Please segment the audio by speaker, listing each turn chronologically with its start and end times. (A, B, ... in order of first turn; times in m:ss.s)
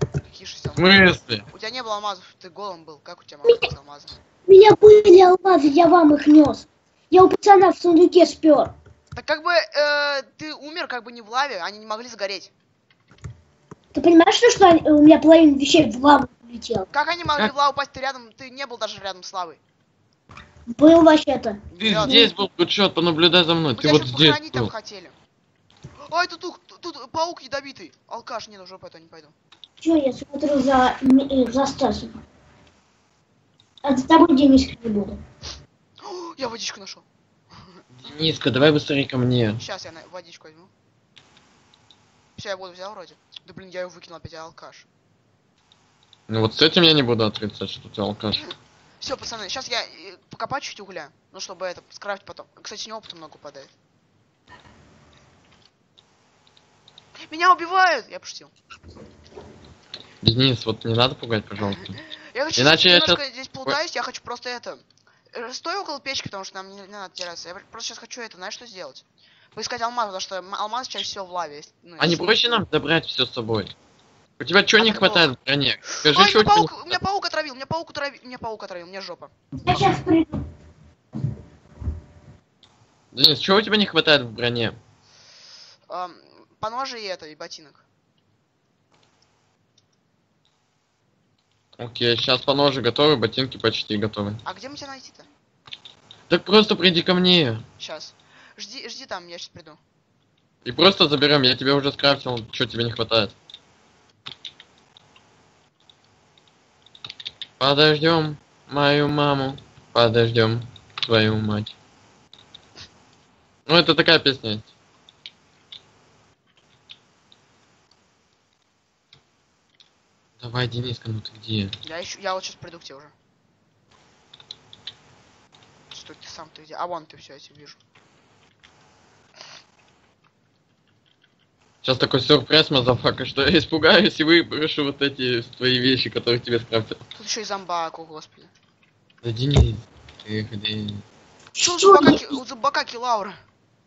0:00.3-0:01.0 A
0:00.7-0:01.4 B
0:01.5-0:04.1 A
0:04.5-0:08.7 C
0:09.1-0:12.5 A
0:13.9-0:16.9 C
0:16.9-0:19.6 A
0:20.8-0:22.3 C
0:21.7-0:22.2 A
0:21.8-0:24.7 B
0:23.7-0:25.2 A
0:26.1-0:29.3 A
0:29.8-0:32.2 C
0:33.8-0:35.2 C
0:36.0-0:37.0 A
0:37.9-0:39.6 B
0:39.6-0:40.7 A
0:42.4-0:44.9 A
0:46.3-0:48.4 B
0:48.4-0:53.7 A
0:57.3-0:58.5 A
1:00.2-1:01.9 B
1:01.6-1:12.4 A
1:02.6-1:03.8 B
1:12.0-1:13.7 B
1:14.4-1:17.0 B
1:14.7-1:15.3 A
1:16.0-1:19.3 A
1:19.6-1:20.4 C
1:23.1-1:24.8 B
1:25.9-1:27.8 A
1:31.8-1:34.4 B
1:34.4-1:35.3 A
1:36.3-1:37.6 B
1:37.8-1:39.8 A
1:40.6-1:43.3 B
1:47.6-1:51.7 B
1:53.7-1:54.7 B
2:00.4-2:01.7 B
2:01.8-2:03.1 A
2:05.9-2:07.8 A
2:11.8-2:17.0 B
2:17.1-2:18.5 A
2:19.2-2:21.0 B
2:21.6-2:22.4 C
2:21.6-2:23.4 A